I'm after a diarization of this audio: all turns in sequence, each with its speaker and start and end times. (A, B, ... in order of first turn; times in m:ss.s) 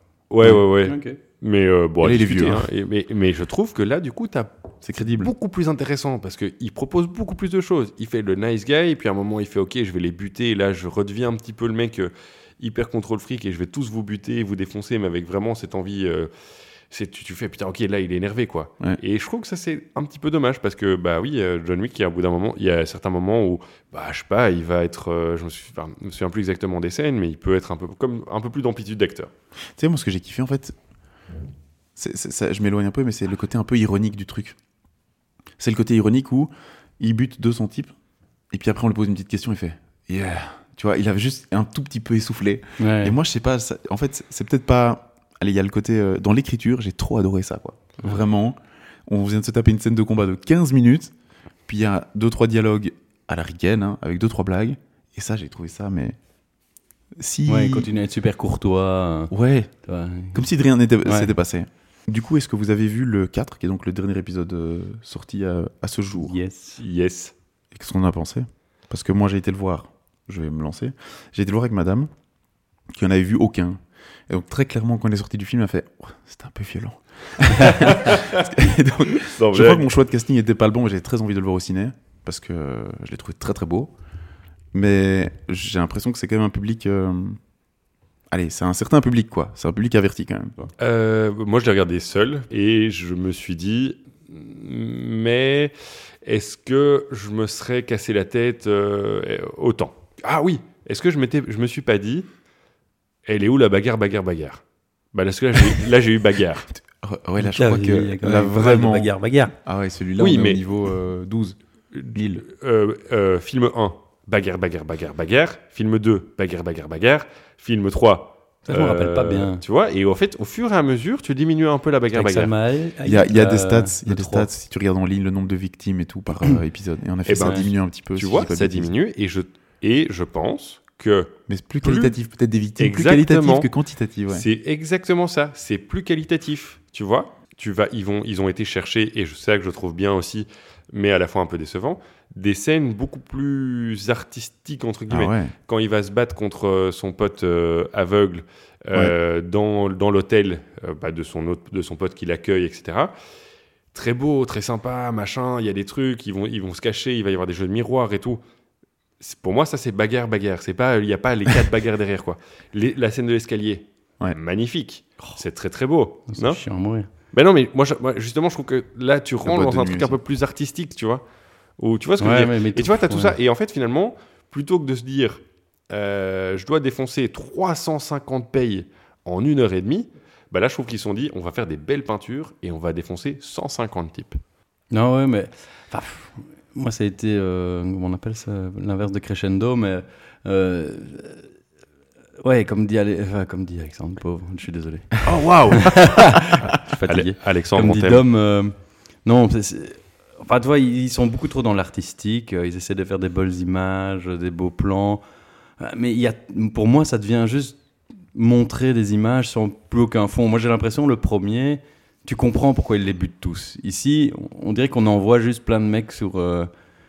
0:00.3-0:16.3 A
0:00.4-0:01.2 B
0:02.0-0:02.7 C
0:04.8-0:05.3 C
0:16.9-0:29.3 A
0:29.8-0:30.8 C
0:32.0-0:34.6 C
0:35.6-0:37.9 C
0:38.5-0:51.1 C
0:42.8-0:43.2 B
0:51.6-0:56.2 C
0:57.2-0:57.9 C
0:57.5-0:59.3 B
0:59.3-0:59.7 C
0:59.8-1:00.5 B
1:00.3-1:06.4 C
1:01.0-1:01.3 B
1:06.2-1:06.8 B
1:06.8-1:07.3 A
1:07.7-1:12.1 C
1:12.9-1:23.9 C
1:17.6-1:18.4 A
1:19.2-1:19.9 A
1:24.7-1:27.4 C
1:28.3-1:30.7 C
1:30.8-1:42.3 A
1:43.2-1:46.7 A
1:46.7-1:49.1 C
1:47.4-1:49.5 B
1:49.6-1:51.6 C
1:50.2-1:50.6 A
1:51.9-2:02.5 A
1:52.1-1:52.4 C
1:58.6-1:59.6 B
2:02.1-2:04.5 B
2:03.0-2:08.9 C
2:07.2-2:12.1 A
2:07.4-2:07.6 B
2:11.5-2:14.4 C
2:12.8-2:13.7 A
2:14.3-2:33.1 A
2:25.1-2:25.5 C
2:33.9-2:38.4 A
2:39.2-2:46.6 A
2:46.3-2:47.1 B
2:47.3-2:51.2 A
2:49.4-2:50.2 C
2:51.8-3:04.4 A
2:52.2-2:53.4 B
3:04.9-3:11.4 B
3:12.4-3:25.2 B
3:15.2-3:16.5 A
3:17.0-3:18.2 A
3:25.8-3:27.8 B
3:28.3-3:36.7 B